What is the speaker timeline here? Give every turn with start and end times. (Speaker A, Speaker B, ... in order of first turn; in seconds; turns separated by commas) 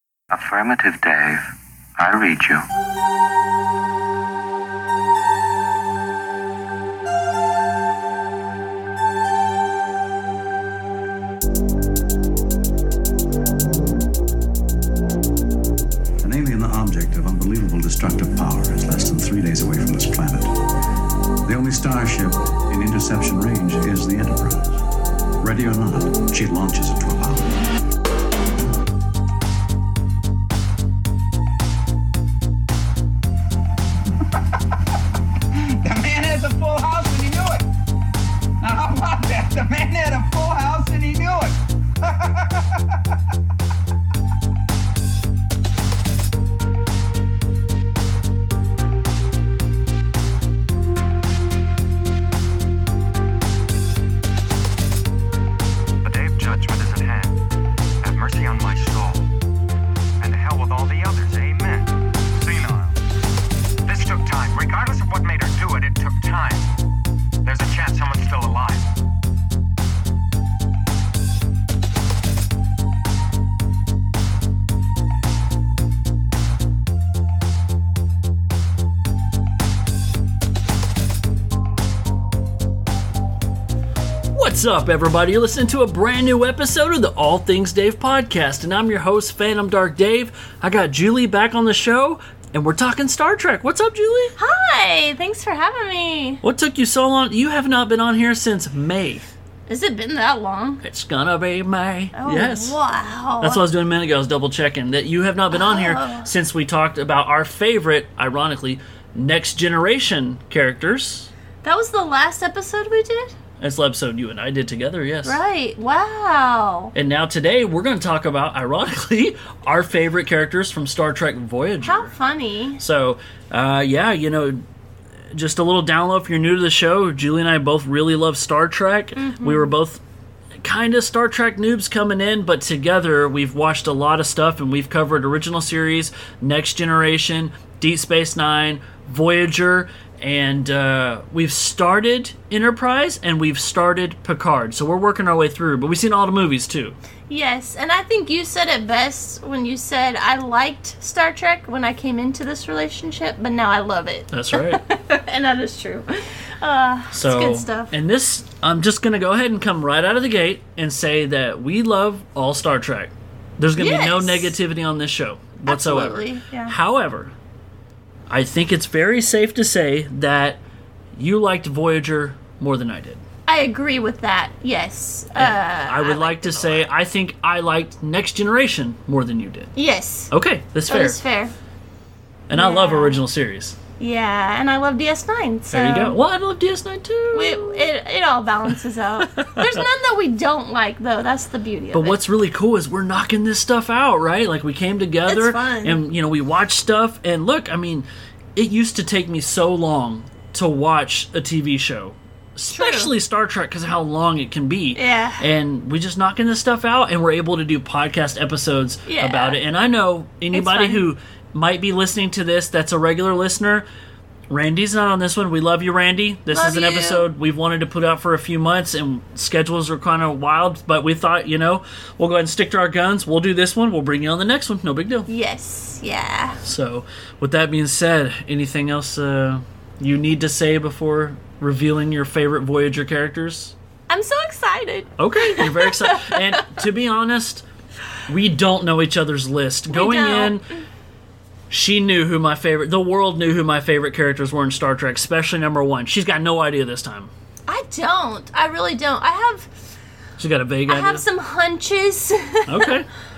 Speaker A: 0.3-2.6, Speaker B: 16.2-20.6, Speaker B: 21.4-24.8, Speaker B: 25.4-27.6, Speaker C: 34.2-37.6, Speaker C: 38.6-43.0, Speaker D: 56.0-57.4, Speaker C: 56.6-57.0, Speaker D: 58.0-59.3, Speaker D: 60.2-61.9, Speaker C: 62.4-62.9, Speaker D: 63.9-66.7, Speaker D: 67.5-68.8, Speaker E: 84.3-94.3, Speaker F: 94.4-96.4, Speaker E: 96.4-99.3, Speaker F: 99.7-100.8, Speaker E: 100.8-102.8, Speaker F: 102.1-103.6, Speaker E: 103.4-111.3, Speaker F: 105.5-106.3, Speaker F: 111.6-113.3, Speaker E: 113.6-115.4, Speaker F: 115.2-116.9, Speaker E: 116.9-122.1, Speaker F: 121.8-122.8, Speaker E: 122.8-124.6, Speaker E: 125.3-130.0, Speaker F: 129.2-129.7, Speaker E: 130.6-147.0, Speaker F: 147.3-157.9, Speaker E: 154.3-154.8, Speaker E: 157.1-167.3, Speaker F: 163.8-164.5, Speaker F: 165.7-166.7, Speaker E: 168.3-170.6, Speaker E: 171.2-173.2, Speaker F: 173.4-176.8, Speaker E: 175.3-179.7, Speaker F: 179.7-180.3, Speaker E: 180.3-181.2, Speaker F: 180.9-181.5, Speaker E: 182.5-183.8, Speaker F: 182.5-183.2, Speaker F: 184.0-186.2, Speaker E: 185.7-187.9, Speaker F: 187.3-192.2, Speaker E: 189.2-189.9, Speaker E: 191.9-213.8, Speaker F: 195.3-196.0, Speaker F: 202.7-203.1, Speaker F: 204.9-205.4, Speaker F: 209.1-209.6, Speaker F: 210.5-211.0, Speaker E: 214.5-225.3, Speaker F: 216.5-217.2, Speaker F: 225.3-226.6, Speaker E: 226.6-233.7, Speaker F: 234.1-236.7, Speaker E: 235.2-237.6, Speaker E: 238.3-240.6, Speaker F: 239.9-240.8, Speaker E: 241.7-247.3, Speaker F: 247.7-249.7, Speaker E: 250.4-251.2, Speaker F: 250.9-253.0, Speaker E: 252.7-253.1